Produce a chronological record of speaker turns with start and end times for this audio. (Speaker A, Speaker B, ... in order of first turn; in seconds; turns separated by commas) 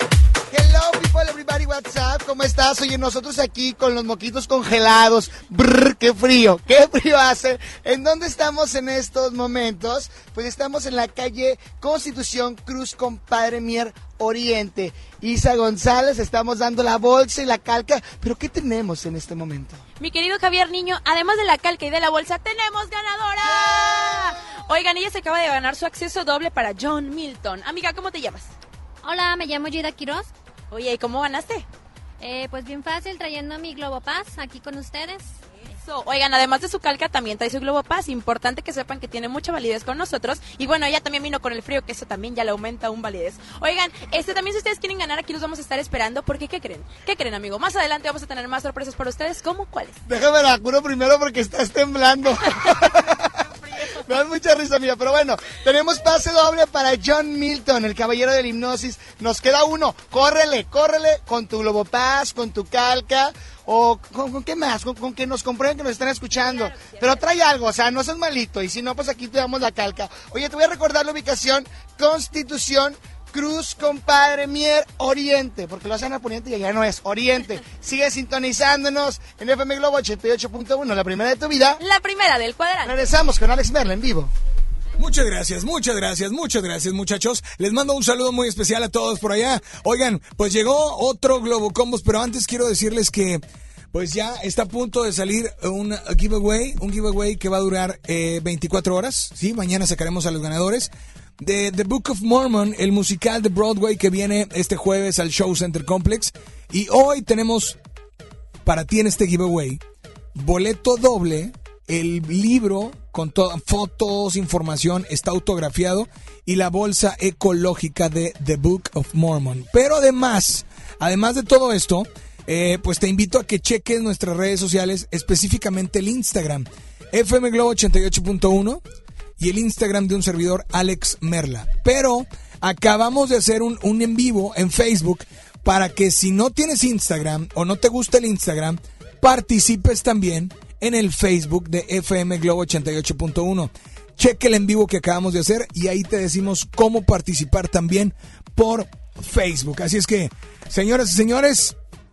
Speaker A: 0.5-19.8, Speaker B: 20.0-28.5, Speaker C: 29.0-30.3, Speaker B: 30.7-31.6, Speaker C: 32.2-35.3, Speaker B: 35.8-50.0, Speaker A: 50.1-53.1, Speaker A: 54.0-81.8, Speaker B: 66.5-67.0, Speaker B: 81.8-83.0, Speaker A: 82.8-84.3, Speaker D: 85.0-107.8, Speaker D: 108.6-109.8, Speaker D: 110.3-128.8, Speaker D: 129.4-151.8